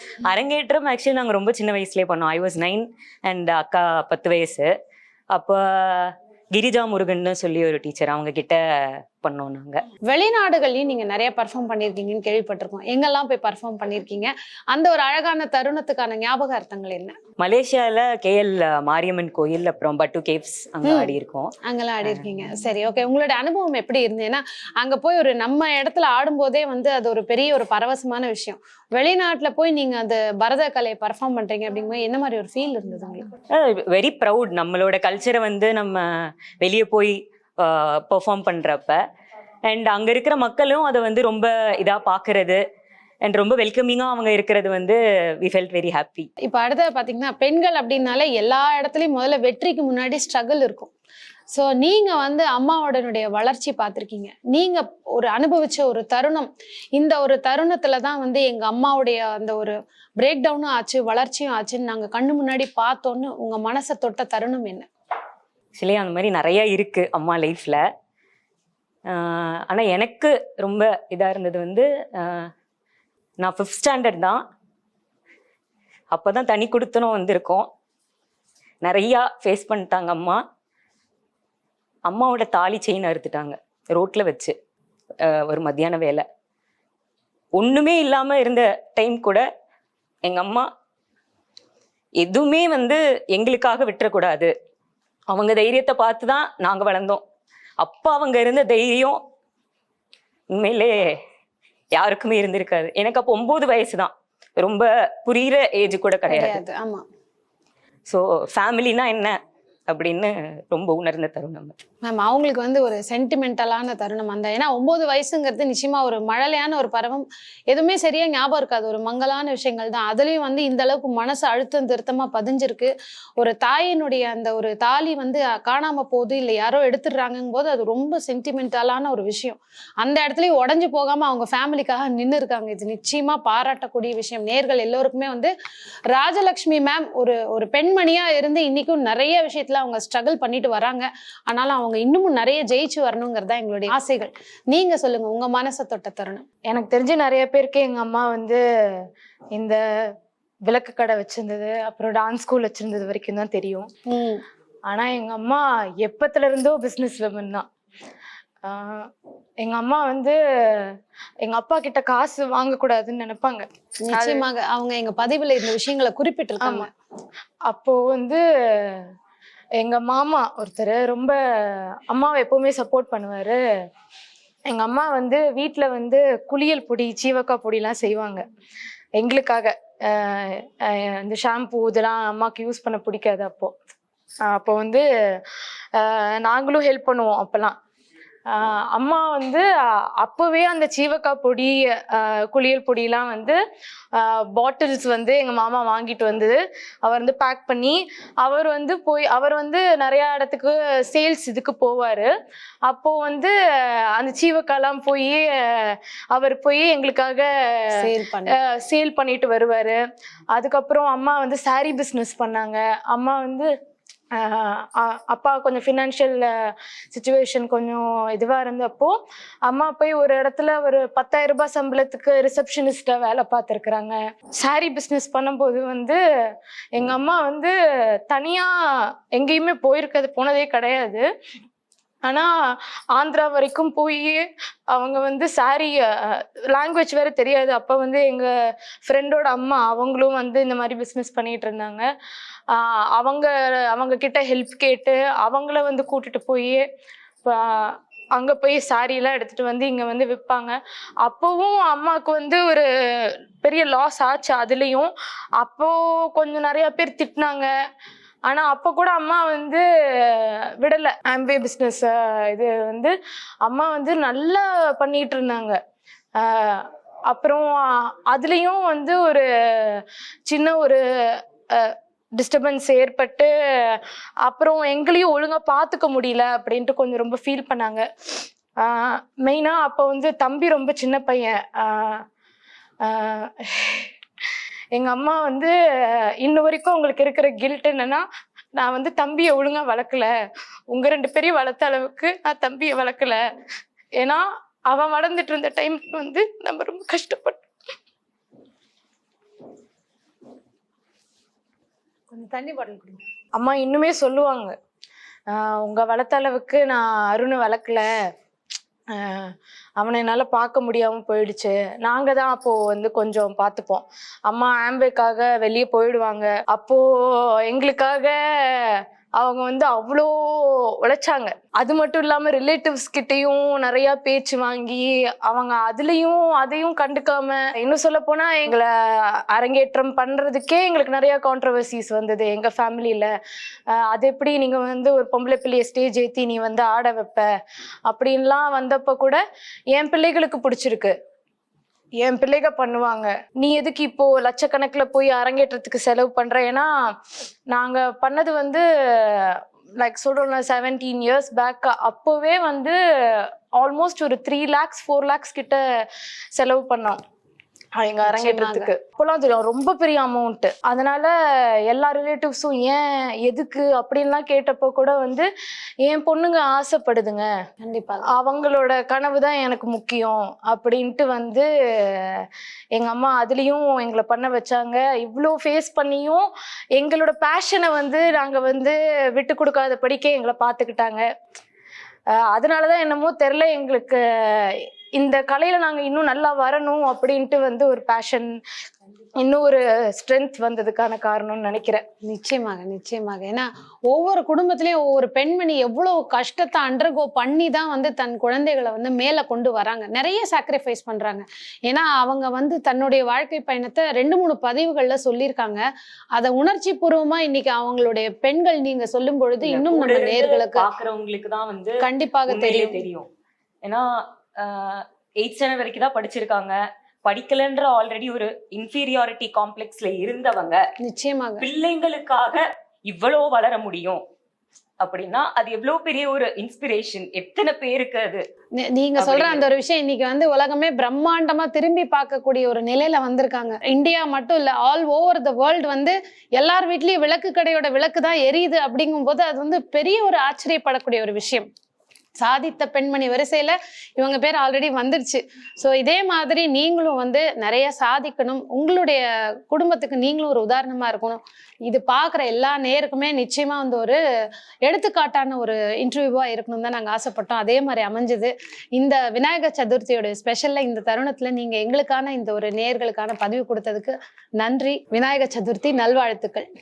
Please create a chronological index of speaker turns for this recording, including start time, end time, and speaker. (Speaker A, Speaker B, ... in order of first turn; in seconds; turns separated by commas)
Speaker A: 0.2-4.7, Speaker A: 5.3-9.8, Speaker B: 10.1-17.2, Speaker A: 17.4-21.5, Speaker B: 20.8-33.2, Speaker A: 33.5-39.0, Speaker A: 39.6-42.6, Speaker A: 43.2-46.3, Speaker B: 46.4-50.9, Speaker B: 51.5-64.9, Speaker A: 65.7-67.8, Speaker A: 69.1-72.5, Speaker A: 73.4-74.4, Speaker A: 76.1-77.7, Speaker A: 78.8-80.4, Speaker A: 82.0-84.5, Speaker A: 85.2-86.2, Speaker A: 87.5-89.5, Speaker A: 90.2-90.7, Speaker A: 92.2-94.5, Speaker A: 95.3-97.2, Speaker A: 97.8-99.2, Speaker A: 100.5-101.2, Speaker A: 101.9-106.6, Speaker B: 106.3-107.0, Speaker A: 108.1-111.7, Speaker B: 112.0-135.5, Speaker B: 136.1-146.4, Speaker C: 146.7-150.1, Speaker C: 150.7-153.9, Speaker B: 154.1-154.4, Speaker C: 154.9-157.7, Speaker C: 158.6-159.1, Speaker C: 159.6-164.4, Speaker B: 164.0-166.9, Speaker C: 166.6-166.9, Speaker C: 167.7-169.1, Speaker C: 169.8-173.6, Speaker C: 174.7-178.4, Speaker C: 179.2-183.8, Speaker C: 184.5-185.1, Speaker C: 185.9-187.8, Speaker C: 188.5-189.7, Speaker C: 190.2-193.6, Speaker C: 194.1-202.3, Speaker C: 202.8-210.0, Speaker B: 207.9-208.6, Speaker C: 210.5-213.7, Speaker C: 214.3-227.7, Speaker C: 228.3-231.2, Speaker C: 232.2-242.1, Speaker C: 242.7-246.8, Speaker C: 247.4-257.7, Speaker C: 258.5-265.8, Speaker C: 266.4-278.1, Speaker C: 278.8-282.2, Speaker C: 283.0-284.1, Speaker C: 284.9-288.2, Speaker C: 288.8-290.4, Speaker C: 290.9-293.4, Speaker C: 294.2-297.6, Speaker B: 302.3-303.2, Speaker C: 303.6-304.8, Speaker C: 305.5-308.1, Speaker C: 309.1-333.3, Speaker C: 333.9-337.5, Speaker C: 338.1-341.1, Speaker C: 342.2-347.1, Speaker C: 347.7-357.2, Speaker C: 358.0-365.5, Speaker B: 358.2-358.9, Speaker C: 366.0-367.5, Speaker B: 367.8-368.2, Speaker C: 368.3-381.3, Speaker C: 382.3-388.6, Speaker C: 389.4-392.0, Speaker B: 392.2-405.8, Speaker B: 406.4-410.9, Speaker A: 409.6-413.3, Speaker B: 412.0-413.0, Speaker A: 413.8-420.9, Speaker B: 421.0-421.6, Speaker A: 421.6-424.2, Speaker A: 425.0-428.4, Speaker B: 428.7-441.7, Speaker A: 429.2-429.6, Speaker B: 442.4-454.2, Speaker B: 454.8-466.7